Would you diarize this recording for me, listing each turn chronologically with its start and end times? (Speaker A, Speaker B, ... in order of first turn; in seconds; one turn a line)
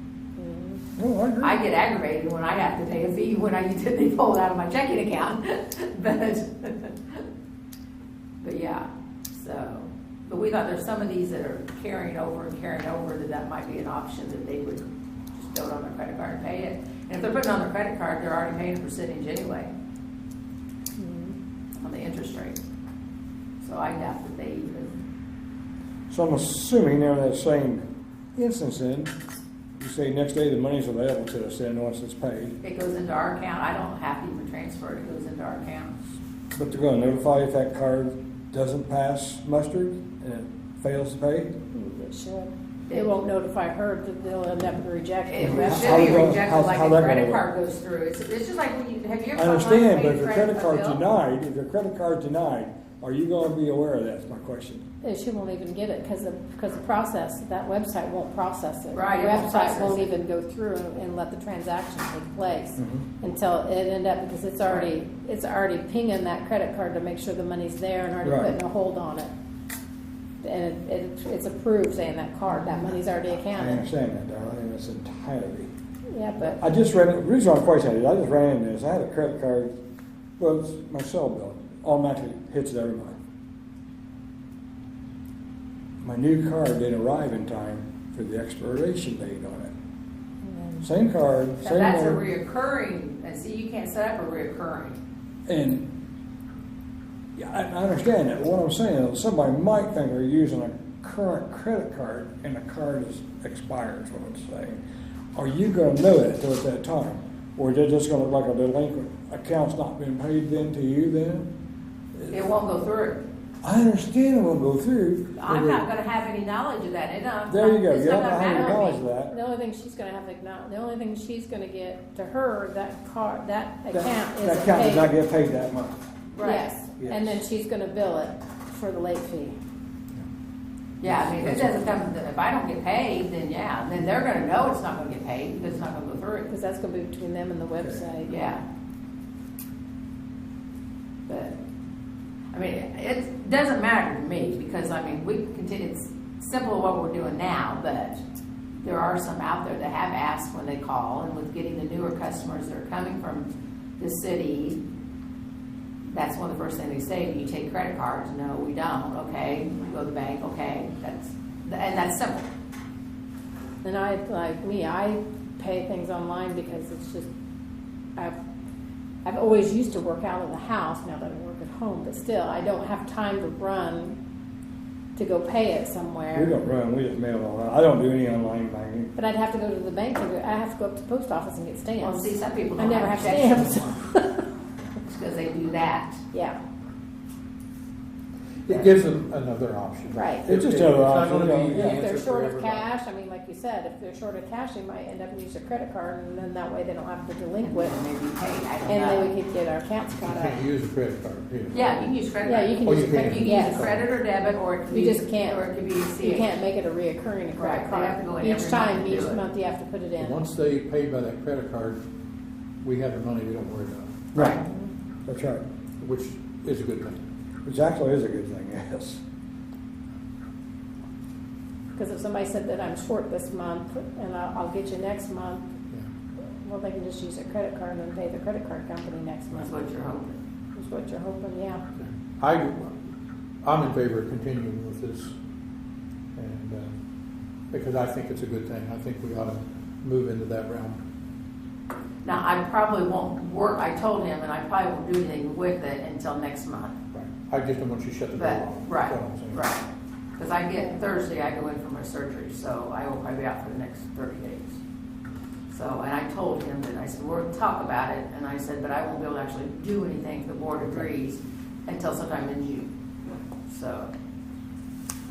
Speaker A: 0.4-0.8
Speaker B: 1.0-1.6
Speaker C: 1.4-7.2
Speaker C: 8.4-19.7
Speaker A: 21.0-21.4
Speaker C: 21.8-22.6
Speaker C: 23.6-25.0
Speaker B: 26.1-27.8
Speaker B: 28.3-29.1
Speaker B: 29.8-32.5
Speaker C: 32.6-36.0
Speaker B: 36.5-41.5
Speaker A: 41.7-46.3
Speaker C: 42.9-43.1
Speaker C: 45.3-51.0
Speaker B: 45.4-47.4
Speaker B: 49.3-54.8
Speaker A: 55.0-69.3
Speaker C: 58.9-60.1
Speaker B: 62.8-63.0
Speaker C: 64.7-64.9
Speaker B: 68.2-68.5
Speaker A: 70.4-73.8
Speaker B: 73.5-75.7
Speaker A: 76.1-76.6
Speaker B: 76.6-79.7
Speaker B: 80.4-83.2
Speaker B: 86.0-89.7
Speaker A: 90.5-90.8
Speaker B: 90.8-92.2
Speaker C: 91.6-95.0
Speaker B: 95.5-95.9
Speaker B: 97.4-104.8
Speaker B: 105.3-111.5
Speaker C: 112.3-113.2
Speaker B: 113.6-115.8
Speaker C: 115.4-119.0
Speaker B: 117.5-119.3
Speaker A: 118.4-125.1
Speaker B: 123.9-126.0
Speaker C: 126.3-126.7
Speaker A: 126.4-129.6
Speaker B: 127.0-127.4
Speaker C: 131.0-136.5
Speaker D: 131.1-131.7
Speaker A: 136.5-138.4
Speaker C: 138.3-138.6
Speaker C: 141.3-141.6
Speaker C: 142.5-148.2
Speaker C: 148.8-153.5
Speaker C: 154.0-154.8
Speaker C: 156.1-162.5
Speaker A: 163.8-167.3
Speaker A: 169.2-174.2
Speaker A: 175.1-176.5
Speaker B: 176.3-179.1
Speaker A: 179.1-184.4
Speaker C: 182.0-183.9
Speaker C: 185.0-186.2
Speaker A: 186.3-186.6
Speaker D: 188.6-192.9
Speaker C: 188.7-189.0
Speaker A: 190.1-190.5
Speaker B: 190.4-192.0
Speaker A: 191.7-198.0
Speaker C: 197.6-199.3
Speaker A: 198.8-200.6
Speaker D: 200.1-202.1
Speaker C: 201.7-206.6
Speaker A: 202.4-204.0
Speaker D: 202.8-204.1
Speaker A: 204.9-205.7
Speaker A: 206.2-210.4
Speaker C: 207.6-209.4
Speaker D: 210.2-212.0
Speaker D: 212.8-214.2
Speaker B: 214.3-214.6
Speaker B: 215.3-215.6
Speaker D: 216.0-217.2
Speaker B: 217.6-219.2
Speaker A: 221.9-225.7
Speaker A: 226.6-229.8
Speaker C: 229.5-230.4
Speaker A: 230.8-231.8
Speaker D: 231.9-233.1
Speaker D: 233.6-235.3
Speaker D: 236.3-237.0
Speaker D: 237.7-241.0
Speaker C: 242.2-247.0
Speaker D: 247.1-249.7
Speaker C: 248.3-249.8
Speaker C: 250.4-254.8
Speaker C: 255.7-262.9
Speaker C: 263.6-264.1